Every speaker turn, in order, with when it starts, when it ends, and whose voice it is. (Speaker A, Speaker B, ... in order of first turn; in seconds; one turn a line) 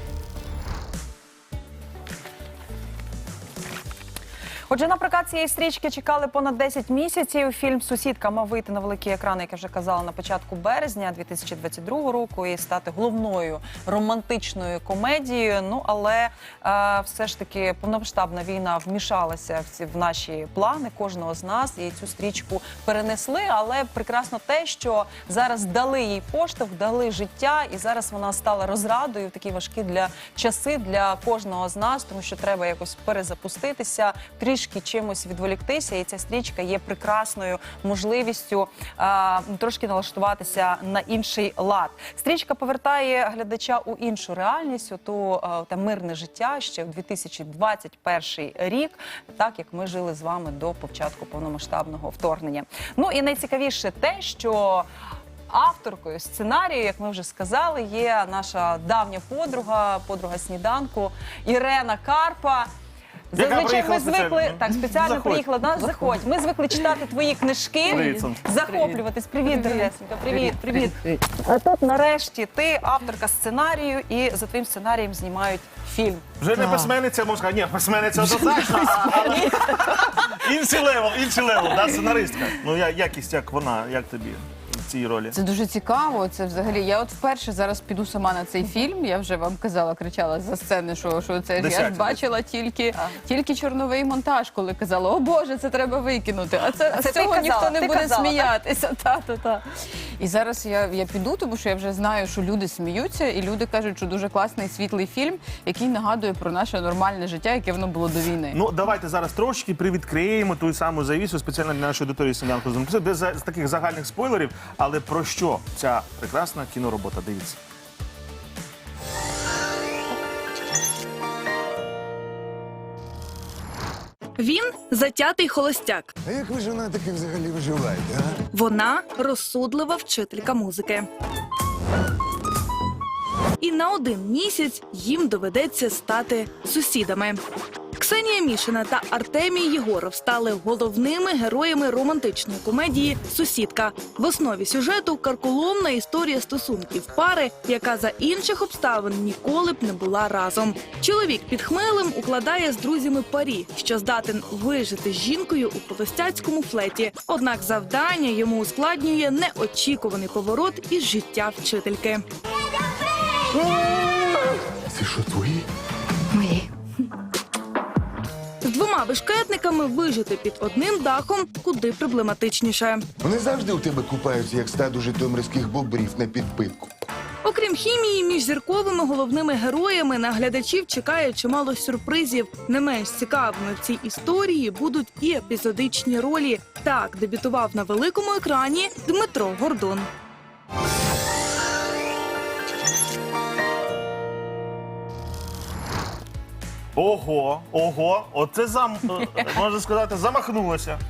Speaker A: 4.7-54.9
Speaker A: 55.5-62.7
Speaker A: 63.3-76.2
Speaker B: 63.3-65.5
Speaker B: 67.9-68.4
Speaker C: 67.9-68.9
Speaker B: 76.4-85.3
Speaker C: 76.5-76.9
Speaker C: 85.3-99.6
Speaker B: 91.6-92.2
Speaker A: 96.9-98.5
Speaker C: 100.2-108.6
Speaker B: 108.5-117.6
Speaker D: 124.4-126.1
Speaker E: 126.2-128.4
Speaker D: 128.5-131.0
Speaker D: 133.6-137.4
Speaker D: 138.0-162.2
Speaker E: 163.6-165.6
Speaker D: 168.7-173.0
Speaker E: 173.2-176.9
Speaker D: 177.4-190.1
Speaker B: 196.9-201.0